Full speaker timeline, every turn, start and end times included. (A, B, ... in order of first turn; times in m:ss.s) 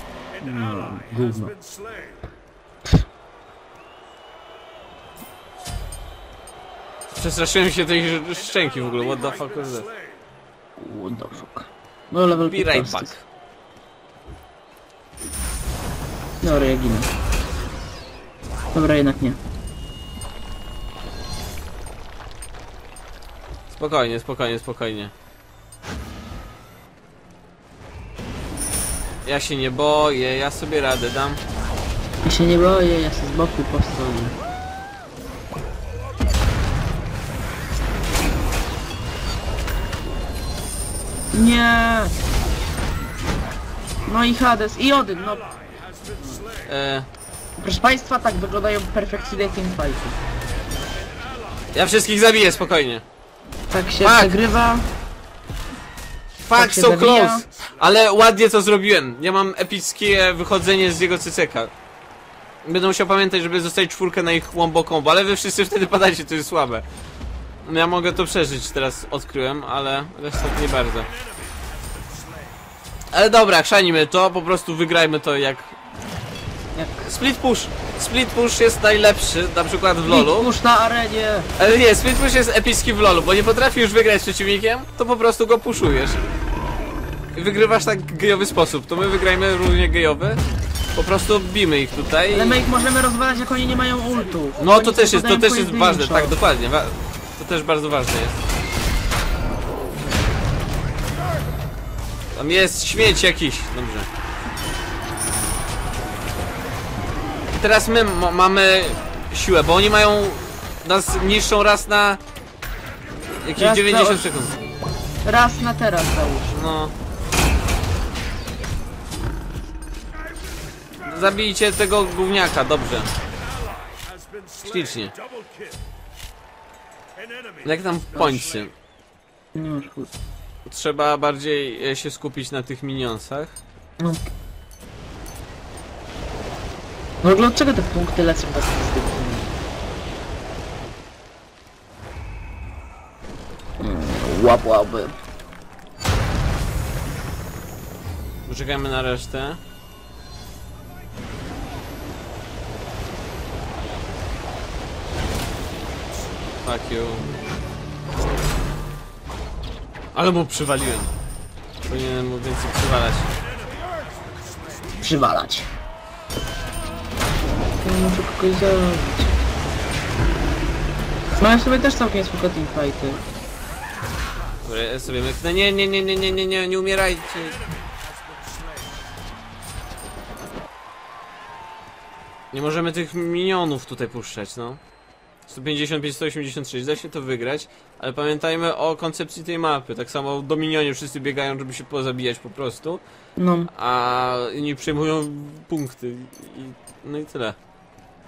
0:00.4-0:01.6 A
0:07.2-0:09.9 B
0:10.8-0:13.2 A
0:12.5-0:13.2 B
0:16.4-0:17.1 A
0:18.7-0:19.4 A
0:23.7-0:25.1 B
0:29.2-0:31.4 B
0:32.2-0:34.4 A
0:41.3-0:42.2 A
0:44.1-0:45.5 A
0:46.2-0:46.5 A
0:46.6-0:47.1 B
0:47.6-0:50.2 A
0:51.7-0:53.0 B
0:53.7-0:54.9 A
0:54.0-0:54.4 B
0:56.4-1:01.7 B
0:56.6-0:57.4 A
1:02.6-1:06.9 B
1:07.6-1:11.1 B
1:13.1-1:15.8 B
1:16.8-1:17.1 A
1:17.0-1:20.5 B
1:20.1-1:21.5 A
1:21.6-1:26.2 B
1:27.3-1:30.4 B
1:31.0-1:32.7 B
1:32.3-1:36.4 A
1:34.6-1:38.4 B
1:42.4-1:44.1 B
1:47.6-1:52.2 B
1:53.3-1:54.6 B
1:53.6-1:54.3 A
1:55.2-1:56.7 A
1:56.5-1:56.9 B
2:01.0-2:03.1 B
2:04.6-2:05.2 B
2:07.6-2:08.7 B
2:09.6-2:10.1 A
2:10.7-2:13.6 B
2:14.0-2:14.3 A
2:17.2-2:19.5 A
2:23.8-2:25.1 A
2:28.4-2:29.6 B
2:36.6-2:37.3 B
2:40.1-2:41.1 B
2:41.8-2:43.3 B
2:45.0-2:45.7 A
2:47.8-2:49.4 A
2:51.4-2:53.2 A
2:54.6-2:57.6 B
3:02.5-3:04.8 B
3:05.5-3:13.0 B
3:13.4-3:13.7 A
3:13.7-3:17.6 B